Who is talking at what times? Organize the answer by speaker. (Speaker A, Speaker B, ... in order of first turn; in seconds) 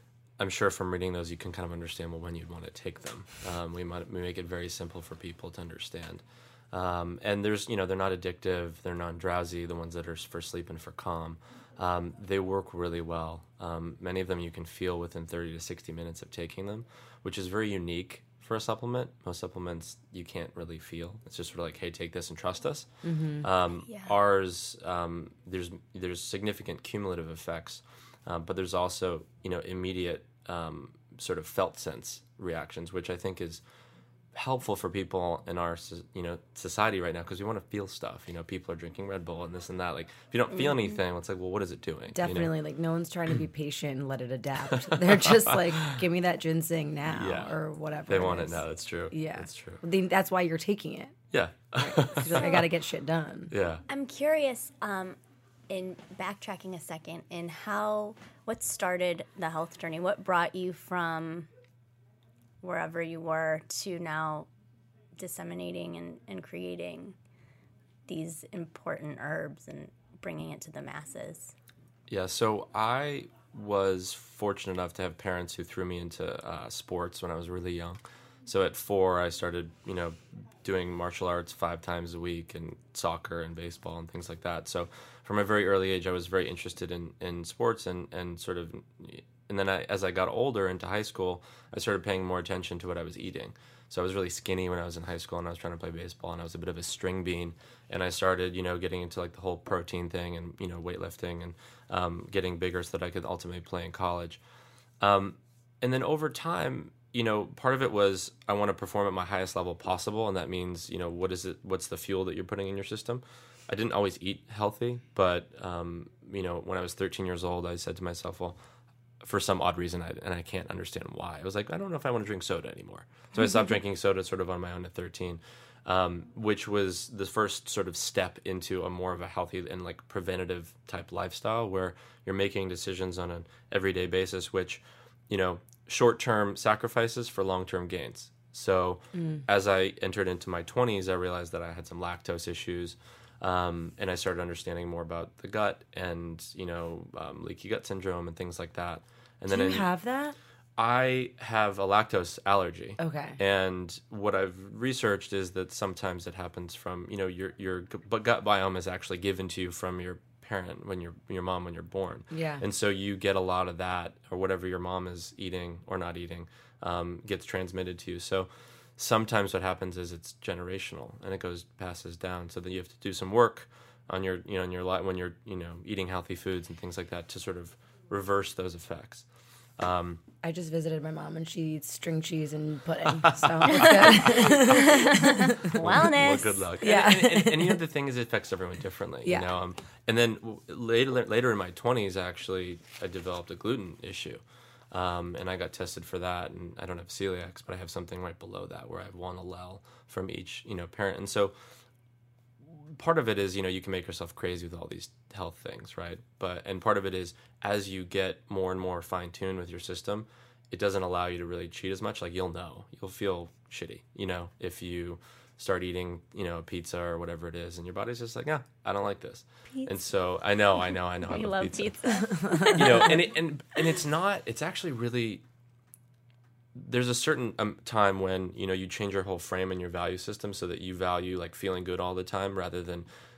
Speaker A: 0.4-22.9, 23.4-33.6, 34.3-42.5, 44.7-46.0, 47.1-49.8, 51.3-52.7, 53.5-53.8, 72.1-104.4, 105.0-118.6, 119.2-149.9, 150.8-179.2, 179.8-180.2, 183.1-185.0, 185.6-201.5, 202.9-225.4, 226.8-233.1
Speaker B: 23.0-23.5, 42.1-51.2, 51.8-53.5, 139.1-139.4, 149.5-150.4, 153.0-153.4, 162.3-162.6, 180.4-185.8, 186.8-187.8, 189.2-189.5, 222.2-223.1
Speaker C: 53.9-55.2, 55.7-61.5, 62.6-64.5, 65.2-67.2, 68.1-71.5, 184.4-186.7, 221.3-223.1